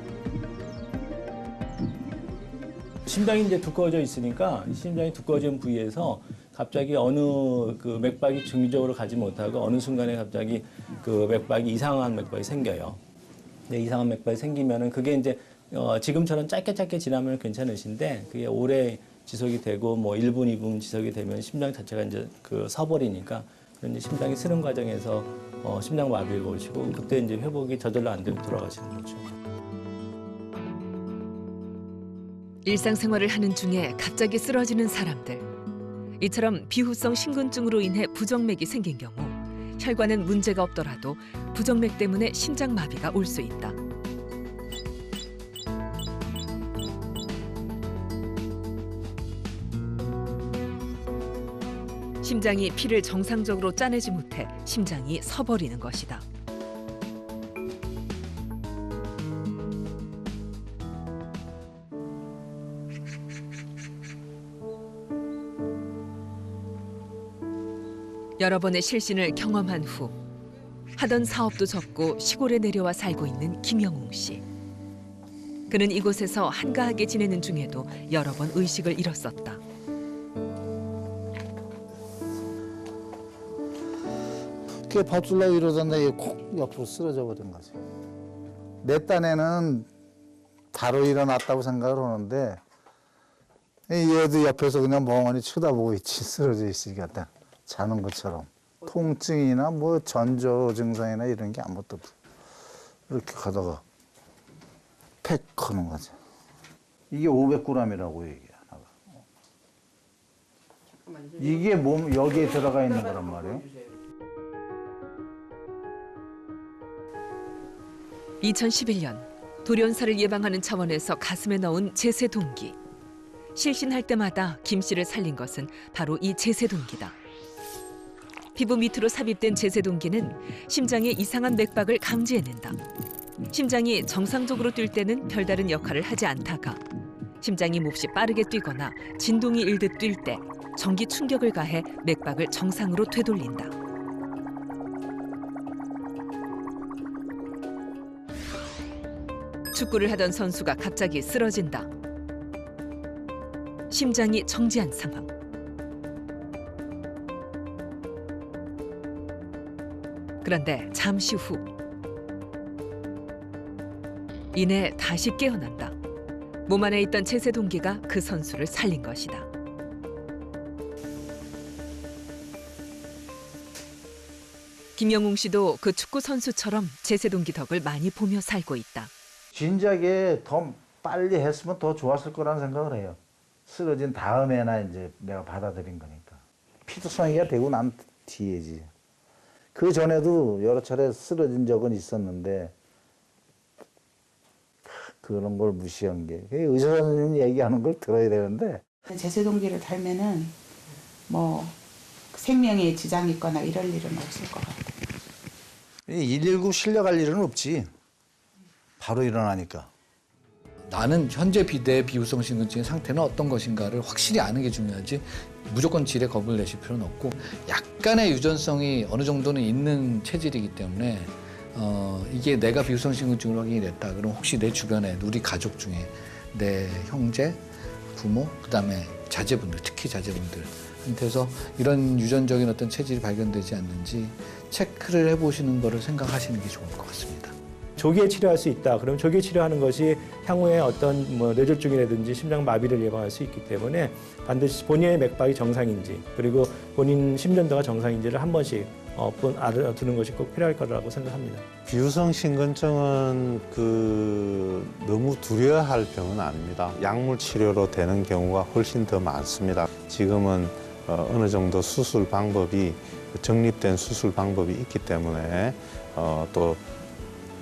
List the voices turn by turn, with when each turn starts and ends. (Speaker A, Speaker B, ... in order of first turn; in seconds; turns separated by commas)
Speaker A: 3.0-13.0, Speaker A: 13.7-29.3, Speaker B: 32.6-35.5, Speaker B: 36.2-43.8, Speaker B: 52.2-56.2, Speaker B: 68.4-70.2, Speaker B: 71.0-74.4, Speaker B: 75.7-79.6, Speaker C: 84.9-87.8, Speaker C: 88.8-89.9, Speaker C: 90.7-92.6, Speaker C: 93.9-102.1, Speaker C: 103.1-103.8, Speaker C: 105.2-106.2, Speaker C: 107.1-109.2, Speaker C: 111.3-113.7, Speaker B: 118.4-122.8, Speaker B: 123.5-127.2, Speaker B: 128.5-132.8, Speaker B: 133.5-136.8, Speaker B: 137.4-143.7, Speaker B: 149.7-151.9, Speaker B: 153.9-155.3, Speaker B: 160.4-161.7, Speaker B: 164.5-165.9, Speaker B: 166.7-169.5, Speaker B: 174.9-179.1, Speaker C: 179.5-188.9, Speaker C: 189.7-192.7, Speaker C: 194.8-198.9, Speaker D: 199.1-200.5, Speaker D: 201.3-201.8, Speaker D: 202.3-205.1, Speaker C: 206.1-207.9, Speaker C: 209.0-209.9, Speaker E: 210.9-237.5, Speaker A: 238.0-251.6, Speaker F: 251.8-266.8